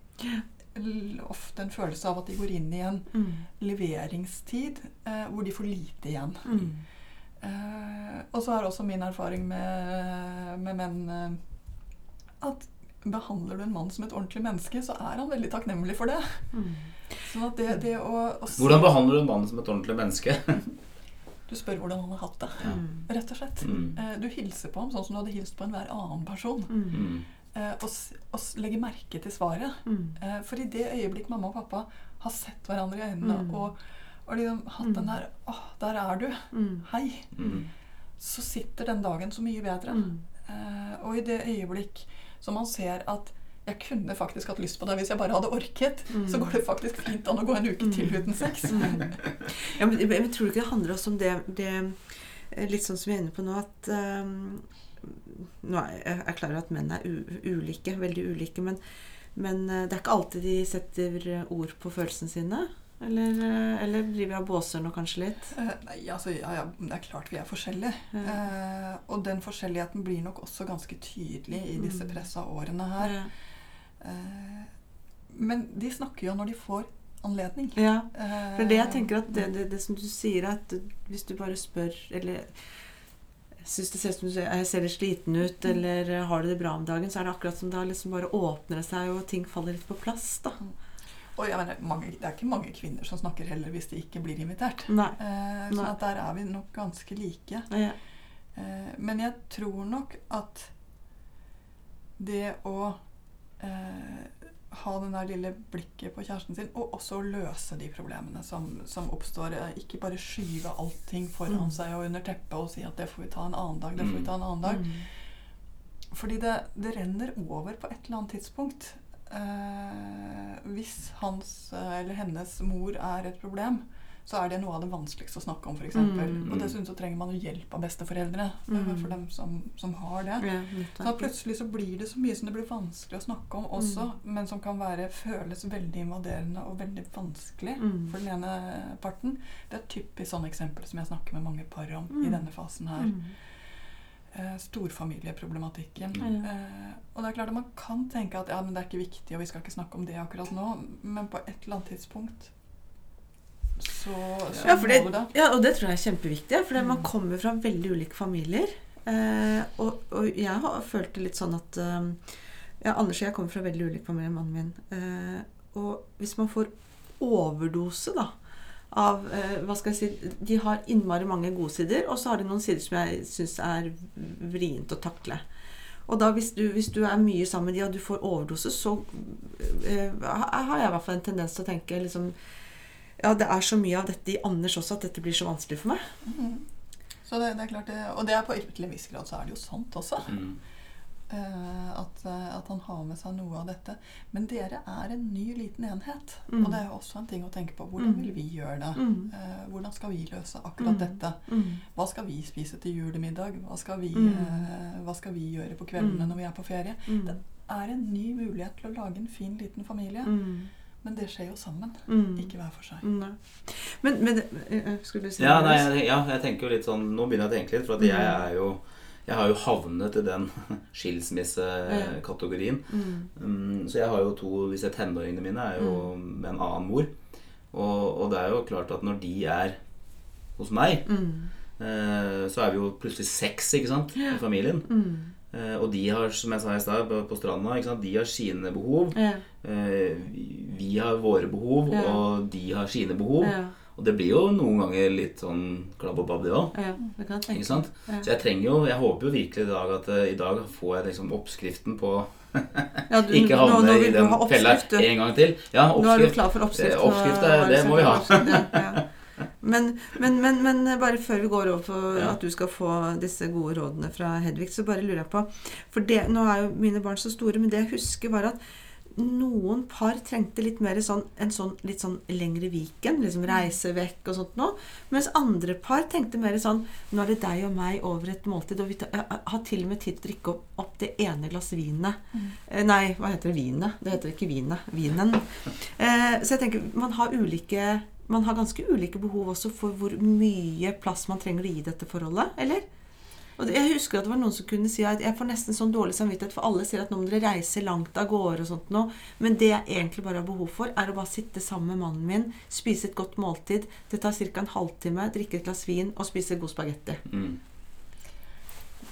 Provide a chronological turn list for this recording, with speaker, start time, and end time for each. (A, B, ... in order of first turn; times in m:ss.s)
0:00.7-0:06.6 A
0:03.1-0:03.4 B
0:06.4-0:06.8 B
0:07.4-0:11.4 A
0:12.4-0:16.5 A
0:16.5-0:16.9 B
0:17.2-0:18.9 A
0:18.6-0:20.6 C
0:21.5-0:26.9 A
0:22.7-0:23.0 B
0:23.6-0:23.9 C
0:26.7-0:27.0 B
0:26.9-0:27.2 C
0:27.5-0:37.3 A
0:29.8-0:30.2 B
0:33.2-0:33.6 B
0:34.8-0:35.1 B
0:36.5-0:36.8 B
0:37.4-0:37.6 C
0:38.2-0:49.2 A
0:39.9-0:40.2 B
0:46.1-0:46.5 B
0:47.9-0:58.8 B
0:59.3-1:05.5 B
1:05.5-1:13.2 A
1:11.7-1:12.2 B
1:13.0-1:13.3 B
1:14.0-1:14.7 A
1:15.3-1:19.4 A
1:17.8-1:22.5 B
1:23.6-1:30.6 B
1:31.4-1:37.7 A
1:34.9-1:35.2 B
1:37.7-1:37.9 B
1:38.6-1:40.7 A
1:42.2-1:43.0 A
1:43.6-1:55.0 A
1:54.0-1:54.3 C
1:54.6-1:55.0 B
1:56.1-2:10.5 A
2:05.9-2:06.5 B
2:06.4-2:06.7 C
2:08.7-2:09.1 B
2:10.4-2:11.3 B
2:11.0-2:23.2 A
2:17.8-2:18.1 B
2:22.1-2:22.4 B
2:23.0-2:23.3 B
2:24.3-2:32.5 A
2:26.2-2:26.4 B
2:33.8-2:35.3 A
2:34.6-2:42.2 B
2:42.8-2:48.3 B
2:48.9-2:55.4 B
2:56.1-3:02.3 B
3:03.2-3:06.0 B
3:06.2-3:06.6 A
3:07.2-3:10.4 A
3:10.3-3:10.6 C
3:11.3-3:30.3 A
3:16.5-3:16.8 B
3:19.0-3:19.3 B
3:20.8-3:21.8 B
3:24.1-3:24.6 B
3:26.0-3:26.3 B
3:27.1-3:27.4 B
3:30.2-3:30.7 B
3:31.0-3:33.1 A
3:32.1-3:35.9 B
3:35.4-3:47.1 C
3:38.0-3:38.4 B
3:41.9-3:42.2 B
3:42.9-3:43.3 B
3:45.8-3:46.1 B
3:47.7-3:49.8 C
3:50.6-3:51.1 C
3:51.1-3:51.5 B
3:51.8-3:54.9 C
3:54.2-3:55.3 B
3:55.5-4:06.7 C
3:59.1-3:59.4 B
4:01.9-4:02.2 B
4:03.4-4:03.7 B
4:06.7-4:08.3 B
4:07.5-4:19.0 C
4:13.1-4:15.1 B
4:15.9-4:19.1 B
4:19.6-4:28.6 B
4:29.1-4:52.8 B
4:53.6-5:07.2 B
5:07.3-5:07.6 C